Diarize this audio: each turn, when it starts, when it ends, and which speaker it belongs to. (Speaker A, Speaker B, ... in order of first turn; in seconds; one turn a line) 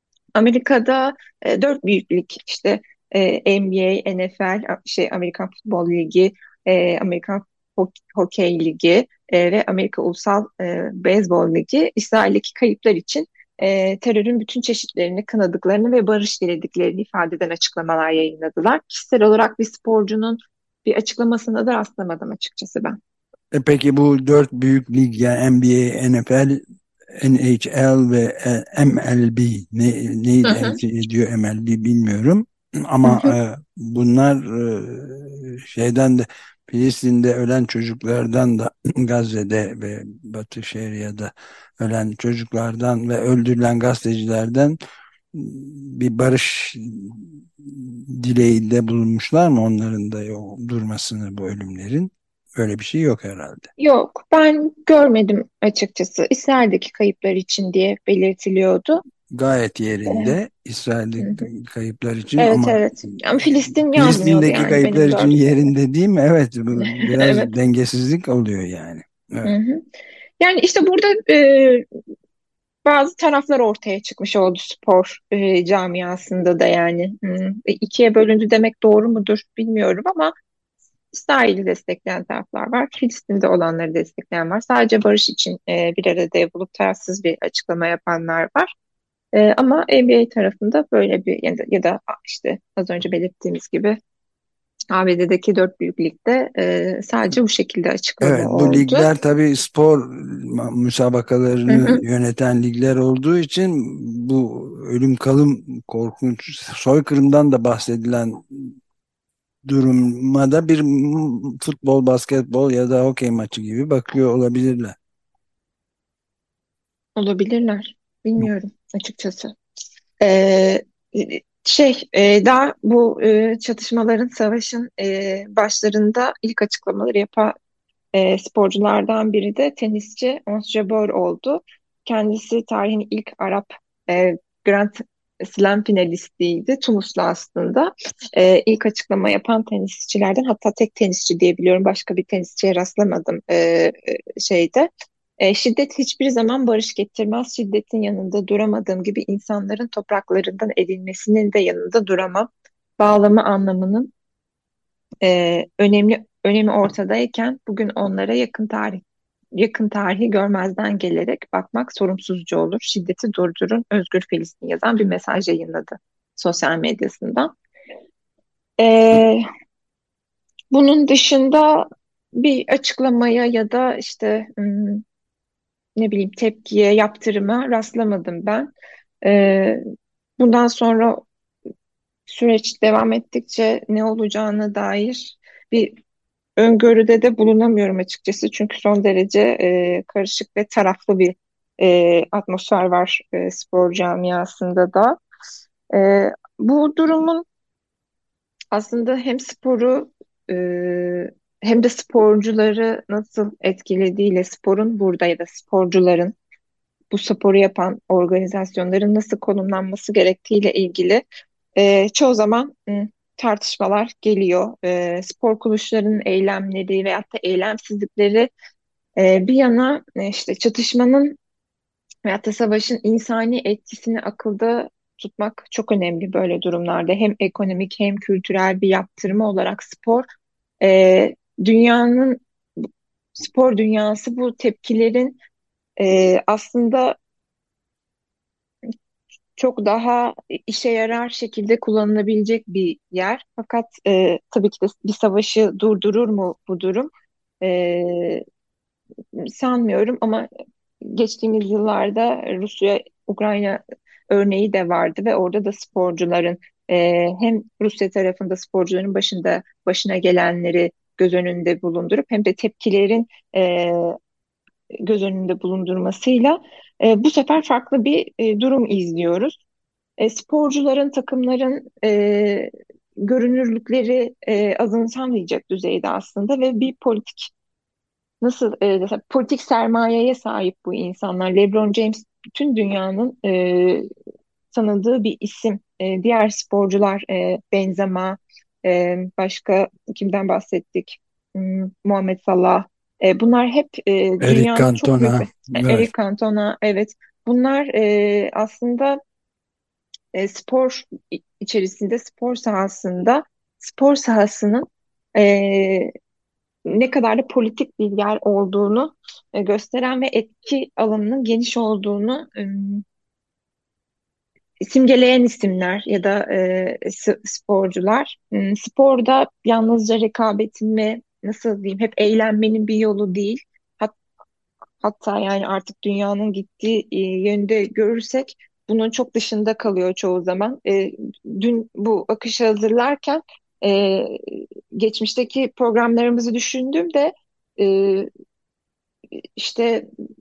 Speaker A: 0.3-23.0
Speaker B: 23.5-26.6
Speaker B: 27.1-44.8
Speaker A: 30.4-30.8
Speaker A: 33.0-33.3
Speaker B: 45.3-53.7
Speaker A: 53.8-59.0
Speaker B: 59.3-62.8
Speaker A: 60.1-60.3
Speaker A: 62.4-65.4
Speaker B: 63.8-69.5
Speaker A: 66.8-67.5
Speaker A: 69.4-69.8
Speaker A: 70.4-71.8
Speaker A: 72.8-80.3
Speaker A: 81.1-88.7
Speaker A: 89.3-94.0
Speaker A: 94.9-99.1
Speaker B: 98.2-108.8
Speaker A: 101.7-102.0
Speaker B: 109.7-115.0
Speaker A: 117.2-119.5
Speaker A: 120.2-127.5
Speaker A: 128.1-144.9
Speaker A: 145.4-152.5
Speaker A: 153.0-154.1
Speaker A: 155.2-159.0
Speaker A: 159.6-167.5
Speaker A: 168.8-169.4
Speaker A: 170.7-175.0
Speaker A: 176.0-178.7
Speaker A: 179.2-179.8
Speaker A: 180.4-181.2
Speaker A: 182.3-186.0
Speaker A: 186.6-195.2
Speaker A: 195.9-197.4
Speaker A: 198.7-206.3
Speaker A: 207.1-211.2
Speaker A: 211.8-218.5
Speaker A: 219.2-221.3
Speaker A: 222.2-230.3
Speaker A: 230.8-232.4
Speaker A: 233.4-235.4
Speaker A: 236.0-237.2
Speaker A: 239.6-247.1
Speaker A: 247.6-248.4
Speaker A: 249.3-250.5
Speaker A: 251.0-264.1
Speaker A: 265.0-269.6
Speaker A: 270.2-277.5
Speaker A: 278.4-284.1
Speaker A: 284.7-299.2
Speaker B: 294.4-296.1
Speaker A: 300.3-306.1
Speaker A: 306.9-313.0
Speaker A: 314.8-324.1
Speaker A: 325.0-338.3
Speaker A: 339.6-340.1